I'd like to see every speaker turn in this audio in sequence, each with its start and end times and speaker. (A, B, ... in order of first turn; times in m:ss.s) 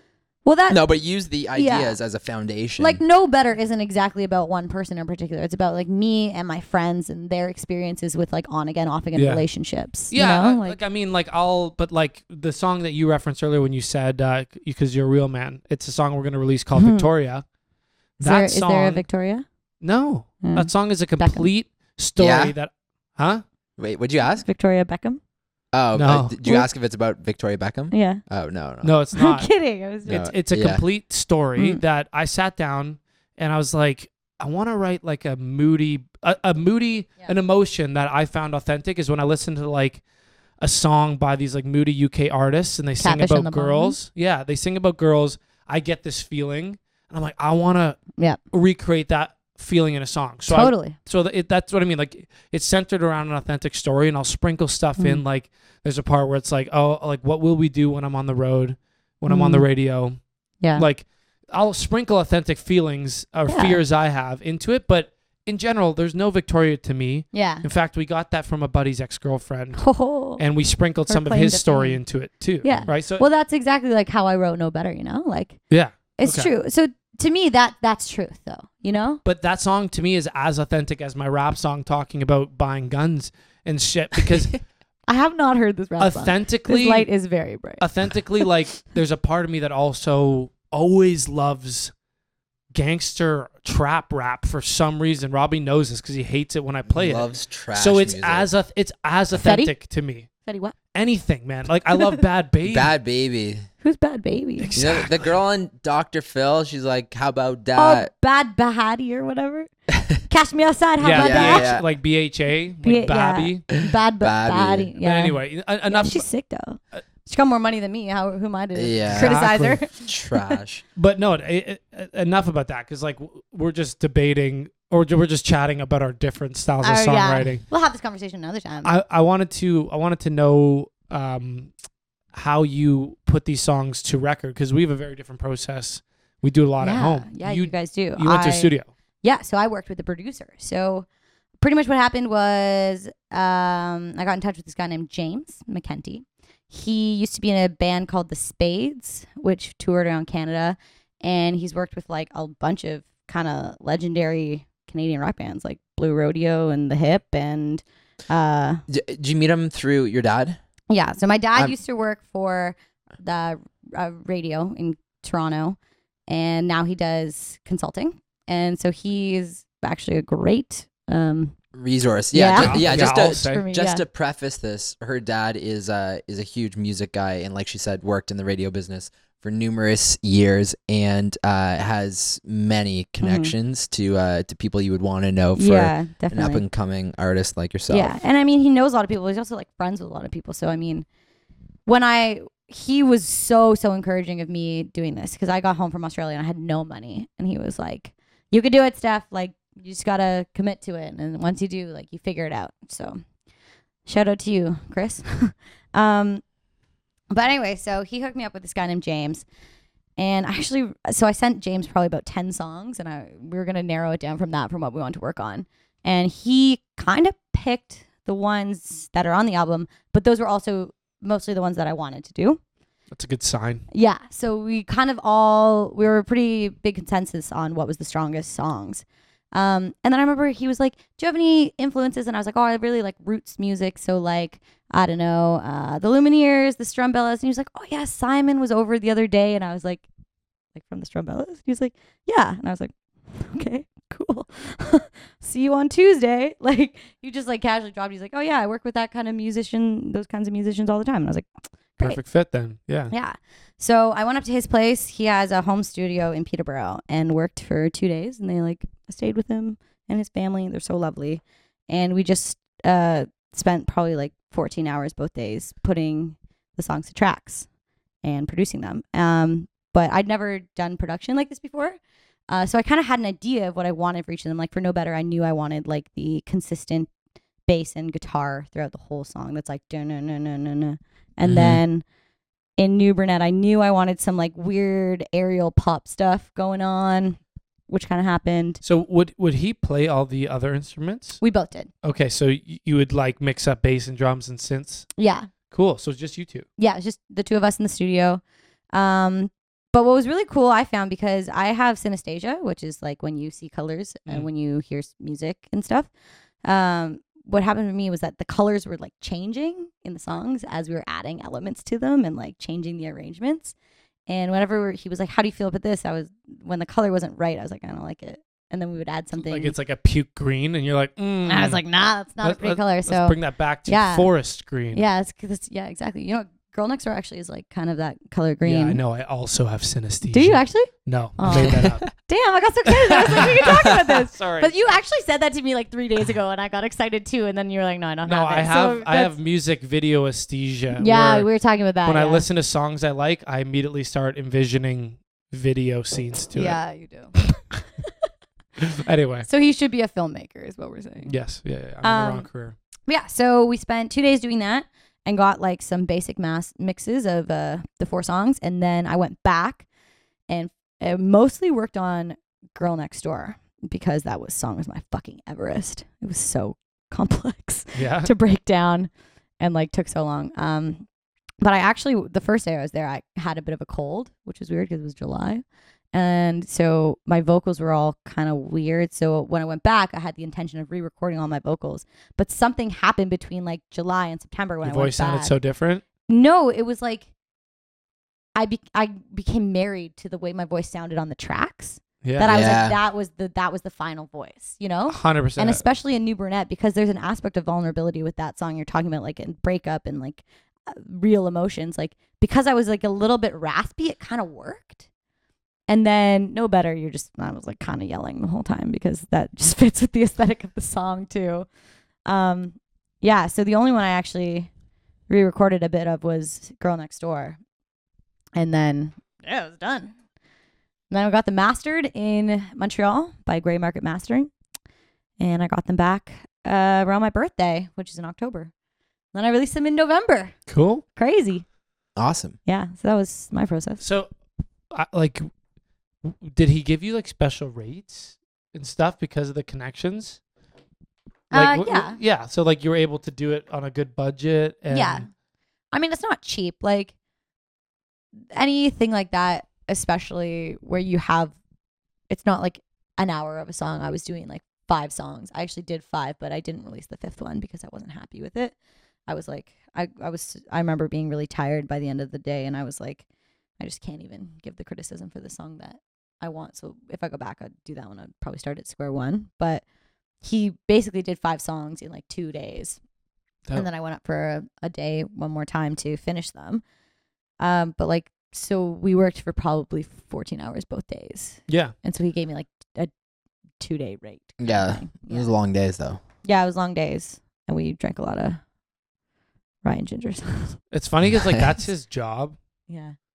0:00.4-0:00.9 A
0:00.7-0:03.0 B
0:01.5-0:02.0 A
0:02.8-0:10.8 A
0:09.2-0:09.5 C
0:10.0-0:17.4 C
0:16.8-0:17.1 A
0:18.2-0:19.0 C
0:18.2-0:19.4 A
0:19.8-0:23.4 C
0:20.4-0:21.5 A
0:22.2-0:22.5 B
0:23.8-0:24.4 B
0:24.4-0:25.2 A
0:25.7-0:28.9 B
0:26.0-0:26.4 C
0:27.9-0:28.2 A
0:28.8-0:40.0 C
0:29.1-0:30.3 A
0:30.1-0:30.8 B
0:31.6-0:31.8 A
0:40.6-1:00.2 C
0:43.0-0:44.0 A
0:50.5-0:51.0 A
0:55.0-0:55.2 A
0:59.3-0:59.7 A
1:00.6-1:00.9 A
1:00.8-1:13.2 C
1:03.5-1:03.8 A
1:07.3-1:07.6 A
1:09.8-1:10.4 A
1:11.1-1:12.0 A
1:12.6-1:15.6 A
1:15.7-1:16.5 C
1:16.2-1:19.2 A
1:19.2-1:24.6 C
1:25.1-1:27.8 A
1:26.0-1:27.1 C
1:27.8-1:31.9 C
1:32.7-1:40.3 C
1:36.9-1:38.5 B
1:39.4-1:39.7 A
1:40.5-1:40.8 A
1:40.9-1:42.9 C
1:42.6-1:43.7 B
1:43.8-1:44.7 A
1:44.6-1:45.3 C
1:44.8-1:48.1 B
1:47.8-1:49.7 A
1:50.3-1:51.7 A
1:51.0-1:53.7 C
1:51.1-1:51.9 B
1:52.8-2:00.6 A
1:53.8-1:54.9 B
1:55.0-1:56.3 C
1:58.8-1:59.5 B
1:59.1-1:59.8 C
2:00.0-2:00.8 B
2:01.0-2:07.6 C
2:06.8-2:08.9 A
2:08.8-2:11.7 C
2:12.3-2:18.9 C
2:16.8-2:21.1 A
2:21.6-2:38.8 A
2:38.9-2:40.6 B
2:40.9-2:51.6 A
2:51.7-3:08.2 B
2:52.3-2:54.0 A
2:52.5-2:53.6 C
3:03.2-3:03.5 A
3:05.6-3:06.6 A
3:07.9-3:11.1 A
3:11.9-3:23.2 A
3:24.1-3:26.4 A
3:27.3-3:29.4 A
3:30.2-3:42.6 A
3:43.1-3:43.8 C
3:43.9-4:00.1 A
4:00.8-4:12.2 A
4:12.0-4:13.1 C
4:13.1-4:27.7 A
4:28.2-4:32.0 A
4:32.5-4:37.1 A
4:37.6-4:42.1 A
4:41.5-4:41.8 B
4:42.8-4:48.8 A
4:48.8-4:51.4 C
4:51.4-4:51.9 A
4:52.0-4:55.1 C
4:55.2-4:55.5 A
4:55.7-4:56.7 C
4:56.8-4:58.4 A
4:58.9-5:06.1 A
5:06.6-5:13.8 A
5:14.3-5:19.7 A
5:19.4-5:21.8 C
5:21.5-5:24.3 A
5:22.4-5:25.0 C
5:24.9-5:29.0 A
5:28.6-5:32.0 C
5:30.3-5:39.3 A
5:31.5-5:32.1 B
5:33.1-5:34.9 C
5:38.3-5:41.5 C
5:41.0-5:42.5 A
5:42.0-5:46.8 C
5:46.5-5:47.4 A
5:48.8-5:49.5 C
5:49.5-5:51.3 A
5:51.2-5:52.8 C
5:52.0-5:52.5 A
5:53.1-5:59.9 A
6:00.5-6:11.1 A
6:07.9-6:08.3 C
6:11.6-6:25.5 A
6:24.8-6:26.0 C
6:26.3-6:27.3 A
6:28.6-6:45.0 A
6:32.2-6:32.6 C
6:32.5-6:33.0 B
6:35.1-6:35.8 C
6:45.9-6:51.7 A
6:52.3-6:54.7 A
6:55.3-6:57.6 A
6:58.6-7:00.1 A
7:01.1-7:04.5 A
7:05.4-7:08.7 A
7:09.3-7:10.6 A
7:10.7-7:11.0 C
7:11.2-7:11.6 A
7:12.2-7:12.6 B
7:12.6-7:14.0 A
7:14.0-7:14.3 C
7:14.9-7:15.5 C
7:16.2-7:20.4 C
7:21.5-7:22.2 A
7:21.5-7:25.3 C
7:24.9-7:25.3 A
7:25.9-7:27.1 A
7:28.5-7:31.6 A
7:32.3-7:38.8 A
7:39.3-7:43.2 A
7:43.8-7:49.8 A
7:50.4-7:53.0 A
7:53.7-7:56.8 A
7:57.6-8:03.1 A
8:01.7-8:01.9 C
8:03.8-8:05.5 A
8:04.6-8:06.2 B
8:06.4-8:08.6 A
8:09.8-8:10.8 A
8:10.9-8:12.6 C
8:11.3-8:11.6 B
8:12.9-8:13.2 A